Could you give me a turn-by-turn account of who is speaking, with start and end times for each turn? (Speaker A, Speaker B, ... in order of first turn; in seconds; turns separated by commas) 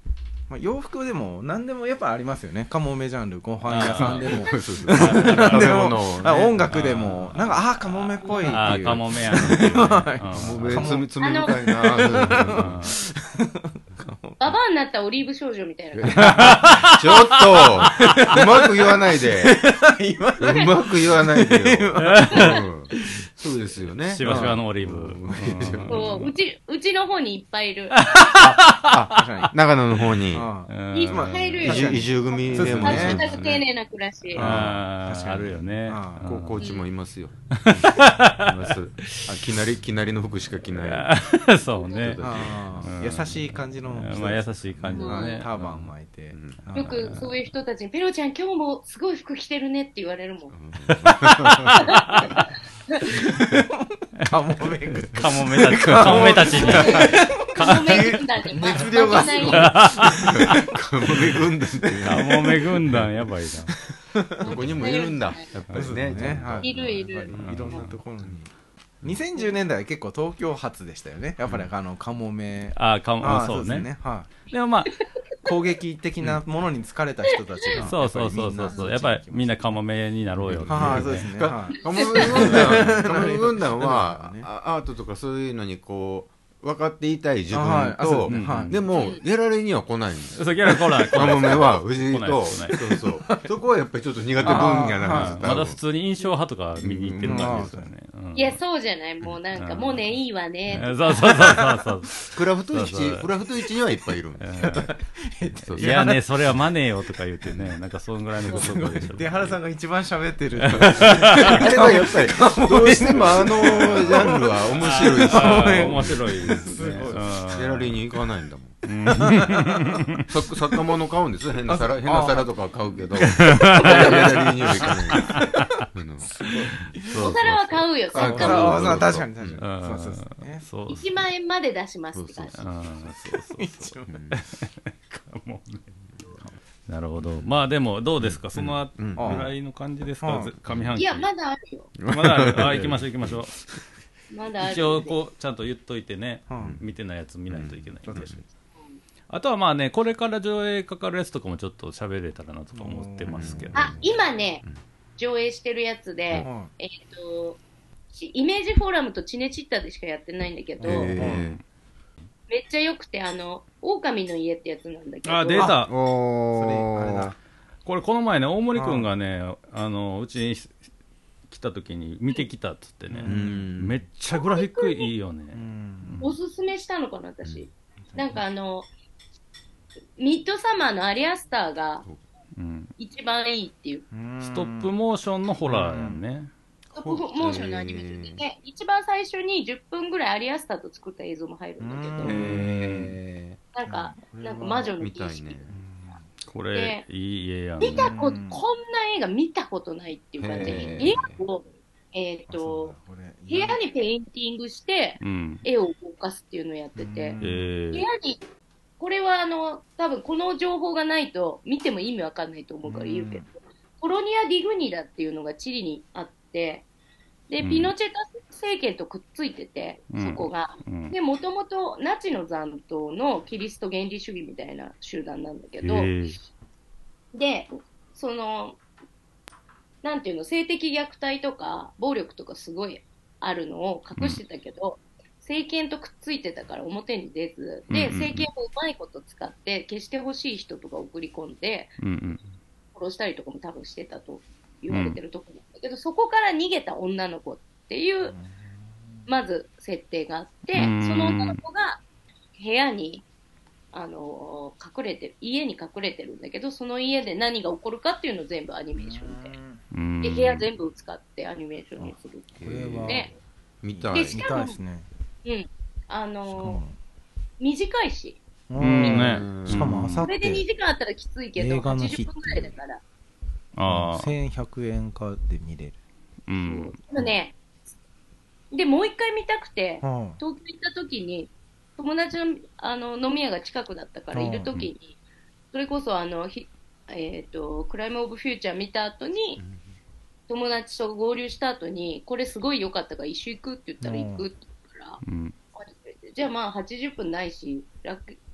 Speaker A: 0.5-14.4, Speaker B: 3.6-5.9, Speaker C: 3.7-7.5, Speaker B: 6.7-11.0, Speaker D: 8.3-8.6, Speaker C: 10.3-12.9, Speaker D: 11.2-11.5, Speaker B: 12.3-13.0, Speaker D: 14.4-16.2, Speaker C: 15.9-19.6, Speaker A: 16.1-16.9, Speaker B: 16.2-18.2, Speaker A: 17.9-22.5, Speaker C: 20.4-26.0, Speaker B: 22.0-23.3, Speaker B: 24.0-26.3, Speaker A: 24.2-24.6, Speaker D: 25.9-27.9, Speaker B: 27.9-29.5, Speaker C: 28.3-30.5, Speaker A: 29.1-29.5, Speaker A: 30.3-33.2, Speaker B: 30.7-31.9, Speaker D: 30.9-34.4, Speaker C: 31.6-33.6, Speaker B: 32.5-33.3, Speaker A: 34.3-36.3, Speaker B: 34.3-36.6, Speaker C: 34.4-34.8, Speaker C: 36.2-41.1, Speaker D: 36.6-36.8, Speaker B: 37.5-39.4, Speaker B: 40.7-45.8, Speaker D: 41.7-42.2, Speaker C: 42.0-42.9, Speaker A: 42.2-47.2, Speaker D: 44.9-45.4, Speaker C: 45.5-46.7, Speaker D: 46.7-50.5, Speaker C: 50.5-51.7, Speaker B: 50.9-52.5, Speaker A: 53.2-61.4, Speaker B: 54.9-58.2, Speaker C: 55.2-57.2, Speaker D: 56.6-59.8, Speaker B: 59.1-60.7, Speaker C: 60.0-63.1, Speaker A: 61.9-62.5, Speaker B: 62.0-63.7, Speaker A: 64.1-64.8, Speaker D: 64.4-65.5, Speaker C: 64.4-68.4, Speaker A: 65.7-68.5, Speaker B: 65.7-66.3, Speaker D: 66.6-67.3, Speaker B: 67.4-68.0, Speaker A: 69.0-74.3, Speaker C: 71.4-71.7, Speaker B: 72.8-73.9, Speaker B: 74.5-74.9, Speaker A: 75.4-79.8, Speaker B: 77.8-81.3, Speaker C: 80.4-95.8, Speaker A: 80.7-84.5, Speaker D: 81.9-82.5, Speaker B: 82.4-82.8, Speaker A: 87.5-88.7, Speaker B: 88.3-88.8, Speaker D: 88.9-89.2, Speaker B: 90.3-92.8, Speaker A: 91.1-91.5, Speaker A: 92.8-93.5, Speaker A: 94.4-95.7, Speaker B: 94.4-98.6, Speaker C: 96.8-97.7, Speaker A: 97.2-97.9, Speaker D: 98.3-100.9, Speaker B: 99.5-100.0, Speaker B: 100.7-103.3, Speaker A: 101.1-101.9, Speaker C: 102.3-104.8, Speaker B: 104.4-104.9, Speaker A: 104.6-106.6, Speaker C: 105.6-106.1, Speaker B: 105.7-109.6, Speaker C: 107.5-107.7, Speaker A: 108.5-117.3, Speaker C: 108.5-109.0, Speaker B: 110.6-111.6, Speaker C: 110.7-119.2, Speaker B: 113.0-117.9, Speaker B: 118.8-120.2, Speaker A: 119.1-119.7, Speaker C: 120.3-126.3, Speaker A: 121.7-122.5, Speaker B: 123.3-125.8, Speaker A: 123.5-124.1, Speaker A: 124.8-125.5, Speaker A: 126.2-127.3, Speaker B: 126.9-129.0, Speaker D: 127.1-129.0, Speaker A: 128.1-130.7, Speaker C: 128.1-129.6, Speaker B: 129.6-131.1, Speaker D: 130.9-132.6, Speaker C: 132.1-132.6, Speaker B: 132.5-135.9, Speaker A: 133.1-134.1, Speaker C: 134.1-134.4, Speaker B: 136.9-141.3, Speaker C: 137.2-137.5, Speaker C: 138.2-139.5, Speaker A: 139.2-139.5, Speaker A: 140.2-140.5, Speaker C: 140.7-141.0, Speaker D: 140.9-141.9, Speaker C: 142.0-143.4, Speaker B: 142.1-143.6, Speaker D: 144.3-145.2, Speaker B: 144.6-148.4, Speaker A: 146.5-146.8, Speaker C: 146.6-146.8, Speaker C: 147.5-148.4, Speaker A: 148.1-148.4, Speaker B: 149.3-153.9, Speaker A: 152.7-154.2, Speaker C: 153.3-154.1, Speaker D: 153.7-154.6, Speaker D: 155.2-157.6, Speaker A: 156.4-156.7, Speaker D: 158.1-161.1, Speaker A: 160.8-161.4, Speaker C: 160.8-161.6, Speaker B: 161.2-161.6, Speaker D: 162.5-165.7, Speaker B: 165.2-165.9, Speaker C: 165.6-167.3, Speaker A: 166.5-167.4, Speaker B: 167.8-170.8, Speaker A: 168.7-169.1, Speaker B: 171.5-176.3, Speaker A: 173.1-173.6, Speaker C: 173.2-174.0, Speaker D: 174.3-175.1, Speaker A: 175.5-176.2, Speaker D: 176.2-178.9, Speaker A: 178.1-178.4, Speaker D: 180.2-182.1, Speaker B: 182.6-182.9, Speaker D: 183.0-184.0, Speaker A: 184.1-184.9, Speaker B: 184.4-186.5, Speaker A: 185.6-186.2, Speaker C: 186.9-188.4, Speaker D: 186.9-192.4, Speaker A: 191.8-192.7, Speaker C: 192.2-193.6, Speaker B: 192.2-193.1, Speaker D: 193.7-195.6, Speaker A: 193.8-194.9, Speaker C: 195.0-195.8, Speaker A: 195.7-196.3, Speaker B: 196.4-198.1, Speaker D: 196.7-197.0, Speaker D: 197.8-202.9, Speaker A: 197.9-198.6, Speaker C: 200.4-201.4, Speaker A: 200.6-201.1, Speaker A: 202.5-203.8, Speaker D: 203.5-207.4, Speaker B: 205.2-205.6, Speaker A: 207.0-207.7, Speaker B: 207.4-208.1, Speaker D: 207.9-208.4, Speaker D: 209.0-216.8, Speaker A: 212.8-213.5, Speaker D: 217.5-226.1, Speaker B: 217.6-217.9, Speaker B: 220.1-221.1, Speaker B: 225.8-226.3, Speaker D: 227.3-228.8, Speaker D: 230.0-242.0, Speaker B: 237.9-238.5, Speaker B: 242.0-242.4, Speaker D: 242.9-248.3, Speaker B: 244.9-245.2, Speaker A: 248.3-248.7, Speaker D: 249.3-252.0, Speaker B: 250.7-251.6, Speaker D: 252.6-253.2, Speaker D: 253.9-259.6, Speaker A: 259.0-259.8, Speaker B: 259.9-260.7, Speaker D: 260.2-263.3, Speaker C: 262.6-264.6, Speaker A: 262.6-263.3, Speaker A: 264.0-265.1, Speaker D: 264.1-264.8, Speaker D: 265.4-266.8, Speaker A: 266.5-266.9, Speaker D: 267.6-268.4, Speaker A: 268.7-270.6, Speaker B: 268.8-270.3, Speaker C: 269.1-269.9, Speaker D: 270.2-273.0, Speaker A: 271.6-272.7, Speaker B: 273.8-274.3, Speaker A: 273.9-276.0, Speaker B: 276.5-276.9, Speaker D: 276.6-277.6, Speaker D: 278.7-285.1, Speaker A: 280.0-280.4, Speaker A: 284.3-284.7, Speaker D: 285.7-289.6, Speaker D: 290.5-295.2, Speaker A: 294.0-294.4, Speaker B: 295.2-295.5, Speaker D: 295.7-298.4